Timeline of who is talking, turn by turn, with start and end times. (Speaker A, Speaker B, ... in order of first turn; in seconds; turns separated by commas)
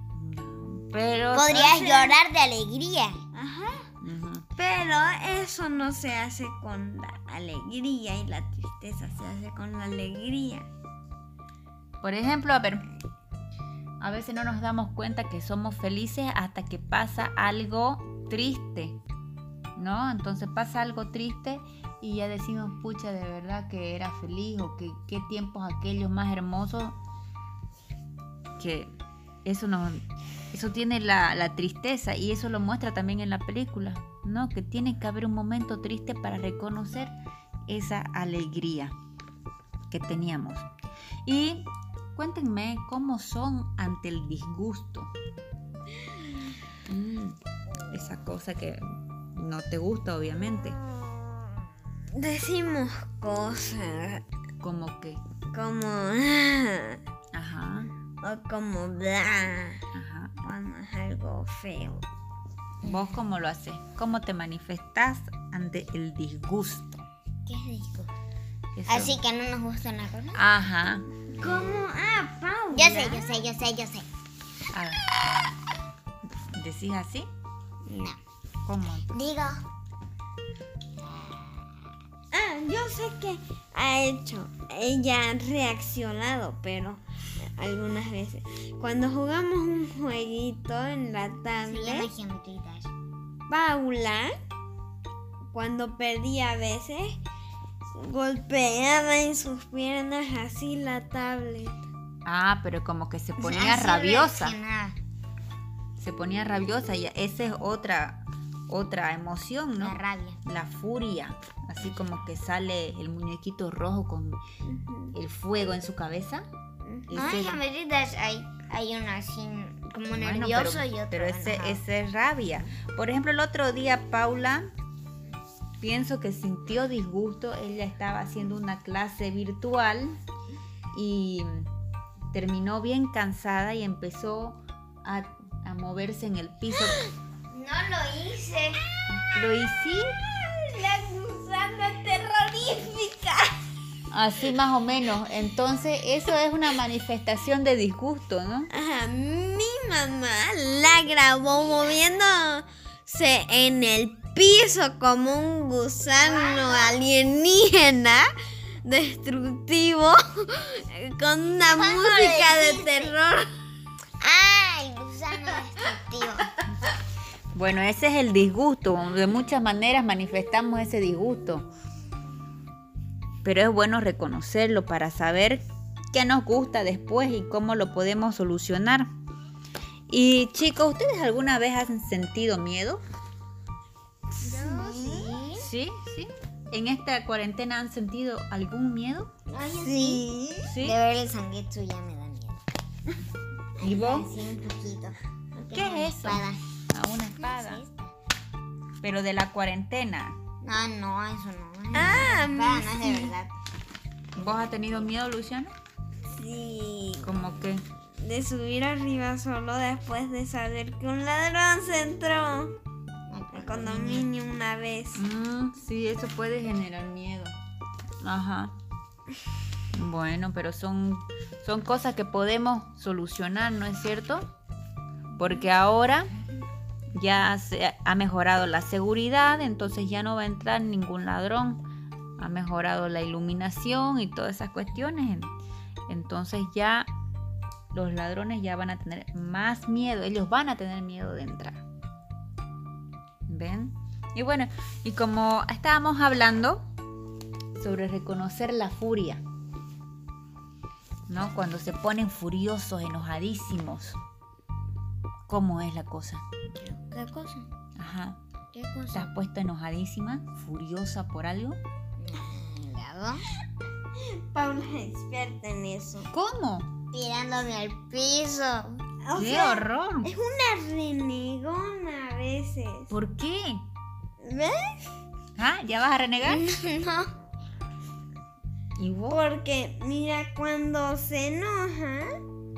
Speaker A: 0.1-1.5, Speaker B: 1.3-3.2, Speaker C: 1.5-2.2, Speaker C: 3.3-3.9, Speaker A: 4.0-4.5, Speaker C: 4.6-10.7, Speaker A: 12.0-12.9, Speaker A: 14.0-19.0, Speaker A: 19.8-27.0, Speaker A: 28.6-30.0, Speaker A: 30.5-37.1, Speaker A: 37.7-39.0, Speaker A: 39.9-40.7, Speaker A: 41.2-45.1, Speaker A: 46.9-50.8, Speaker C: 50.5-51.6, Speaker C: 52.1-54.2, Speaker A: 54.6-55.2, Speaker C: 55.5-57.0, Speaker A: 57.3-57.9, Speaker C: 58.2-59.8, Speaker A: 59.9-60.4, Speaker C: 60.4-62.1, Speaker A: 62.8-67.0, Speaker B: 67.5-68.1, Speaker A: 68.8-69.2, Speaker B: 68.9-70.4, Speaker A: 70.3-71.1, Speaker C: 71.3-73.4, Speaker B: 72.7-74.1, Speaker A: 74.7-75.0, Speaker A: 76.5-77.3, Speaker B: 77.8-78.2, Speaker A: 78.7-79.1, Speaker B: 79.1-79.6, Speaker B: 81.0-81.8, Speaker C: 82.3-87.0, Speaker C: 87.6-92.1, Speaker B: 91.7-92.9, Speaker C: 93.5-94.3, Speaker C: 95.5-97.2, Speaker C: 98.0-101.8, Speaker A: 102.2-104.6, Speaker B: 103.4-105.0, Speaker A: 106.0-114.4, Speaker B: 109.8-110.4, Speaker C: 114.6-115.2, Speaker A: 115.1-116.5, Speaker C: 116.8-117.3, Speaker A: 117.1-117.6, Speaker B: 117.1-121.8, Speaker A: 120.1-124.7, Speaker A: 125.8-130.2, Speaker A: 130.9-131.7, Speaker A: 132.3-137.0, Speaker B: 137.5-138.8, Speaker A: 139.2-140.2, Speaker C: 140.2-143.6, Speaker A: 144.1-148.7, Speaker C: 148.7-158.3, Speaker B: 156.3-156.9, Speaker C: 158.8-163.5, Speaker B: 161.7-163.1, Speaker B: 164.2-166.5, Speaker A: 167.5-171.7, Speaker A: 173.4-179.1, Speaker A: 180.1-183.0, Speaker C: 184.4-185.4, Speaker B: 184.4-185.7, Speaker A: 185.5-189.3, Speaker B: 189.5-192.6, Speaker C: 189.7-190.7, Speaker A: 190.6-191.0, Speaker B: 193.8-196.6, Speaker A: 193.8-194.3, Speaker A: 195.7-197.8, Speaker B: 197.4-198.2, Speaker A: 199.0-200.4, Speaker B: 200.6-203.5, Speaker C: 201.9-203.3, Speaker A: 204.3-205.7, Speaker B: 204.7-205.0, Speaker C: 206.3-207.3, Speaker A: 207.2-207.8, Speaker C: 208.2-212.7, Speaker B: 213.3-214.3, Speaker C: 213.5-215.2, Speaker A: 215.2-217.6, Speaker A: 218.2-218.8, Speaker A: 219.9-224.5, Speaker A: 225.4-226.3, Speaker A: 227.1-231.8, Speaker A: 232.4-235.5, Speaker A: 236.1-237.1, Speaker A: 237.9-241.8, Speaker A: 243.5-246.8, Speaker A: 247.8-249.4, Speaker A: 251.3-254.2, Speaker A: 255.5-256.4, Speaker B: 256.7-257.7, Speaker A: 258.0-258.4, Speaker B: 258.7-259.3, Speaker A: 259.1-261.8, Speaker B: 262.2-263.4, Speaker C: 264.2-266.3, Speaker A: 266.3-266.9, Speaker B: 267.1-269.0, Speaker C: 269.2-273.1, Speaker A: 269.4-270.3, Speaker A: 273.1-273.9, Speaker C: 274.4-274.8, Speaker A: 275.6-276.7, Speaker B: 276.4-277.3, Speaker A: 279.0-279.4, Speaker C: 279.3-282.4